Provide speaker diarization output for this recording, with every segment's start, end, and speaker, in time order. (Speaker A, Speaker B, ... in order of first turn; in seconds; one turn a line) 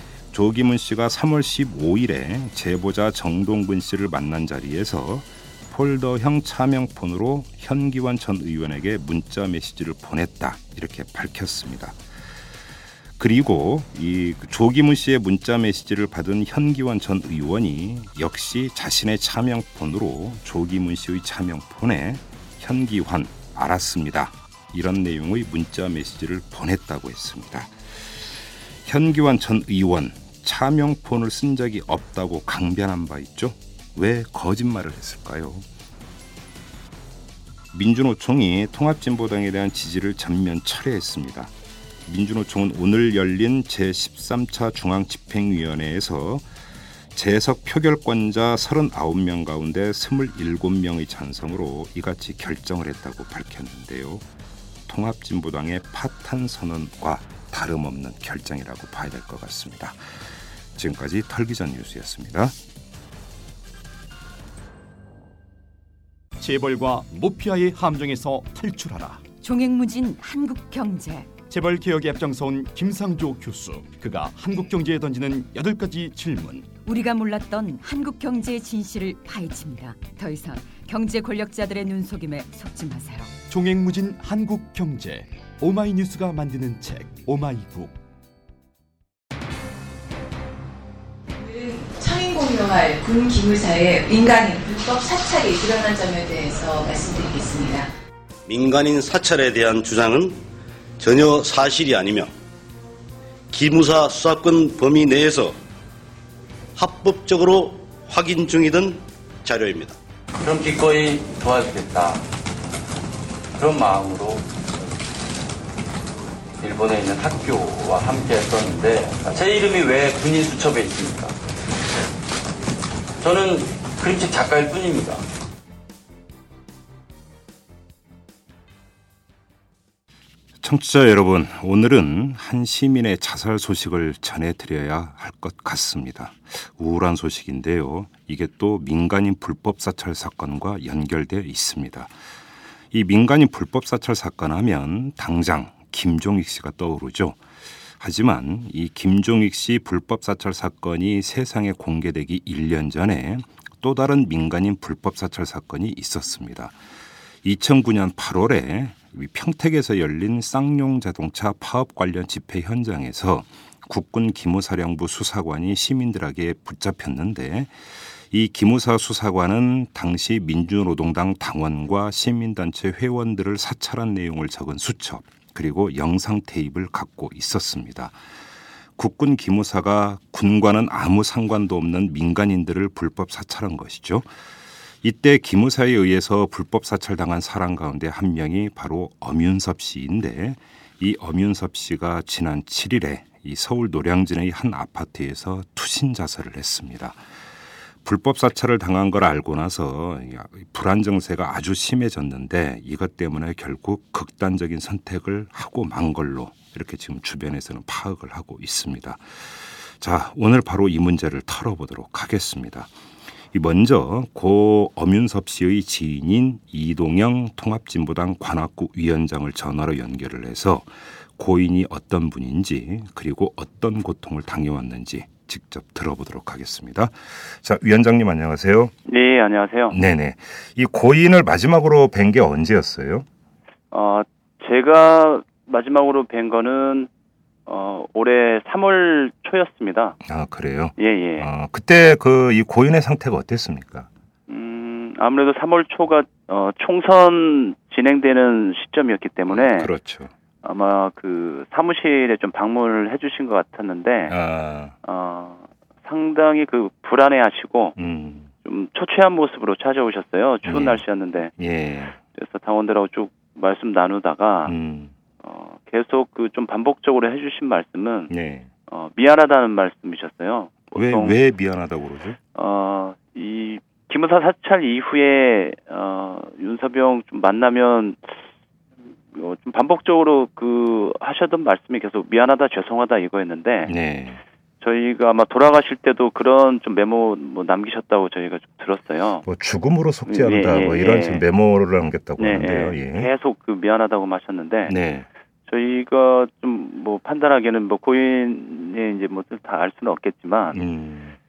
Speaker A: 0.3-12.0
Speaker A: 13.2-27.7
Speaker A: 28.9-35.6
Speaker A: 37.7-41.5
Speaker A: 42.1-46.5
Speaker A: 47.1-54.2
Speaker A: 54.9-60.0
Speaker A: 60.8-62.5
Speaker B: 66.4-69.3
Speaker C: 69.4-71.3
Speaker B: 71.5-76.7
Speaker C: 76.8-83.3
Speaker B: 83.5-88.0
Speaker D: 91.4-97.9
Speaker E: 98.5-100.4
Speaker E: 101.0-102.3
Speaker E: 103.5-105.6
Speaker E: 106.8-110.0
Speaker F: 110.4-112.2
Speaker F: 113.6-114.5
Speaker F: 116.6-121.4
Speaker F: 123.2-125.2
Speaker A: 130.6-142.1
Speaker A: 142.9-147.4
Speaker A: 148.0-156.7
Speaker A: 157.4-167.7
Speaker A: 168.3-178.2
Speaker A: 179.0-184.3
Speaker A: 185.0-197.2
Speaker A: 198.0-212.9
Speaker A: 213.5-228.9
Speaker G: 229.1-230.0
Speaker A: 229.9-233.3
Speaker G: 233.9-237.1
Speaker G: 237.7-240.2
Speaker A: 240.2-244.1
Speaker G: 241.0-241.5
Speaker G: 244.5-249.9
Speaker A: 249.5-250.3
Speaker G: 250.6-254.3
Speaker A: 254.3-254.9
Speaker G: 255.0-258.0
Speaker A: 258.0-258.5
Speaker G: 258.6-261.5
Speaker A: 260.6-261.0
Speaker A: 261.6-262.2
Speaker G: 262.4-264.7
Speaker A: 264.7-265.1
Speaker G: 265.4-268.3
Speaker A: 268.3-268.7
Speaker G: 268.9-271.4
Speaker A: 270.9-272.4
Speaker G: 272.6-278.4
Speaker G: 279.3-283.9
Speaker A: 283.9-284.4
Speaker G: 284.8-289.4
Speaker A: 289.4-293.3
Speaker G: 290.3-291.4
Speaker G: 292.4-294.9
Speaker A: 294.9-295.3
Speaker G: 295.7-300.8
Speaker A: 300.7-301.4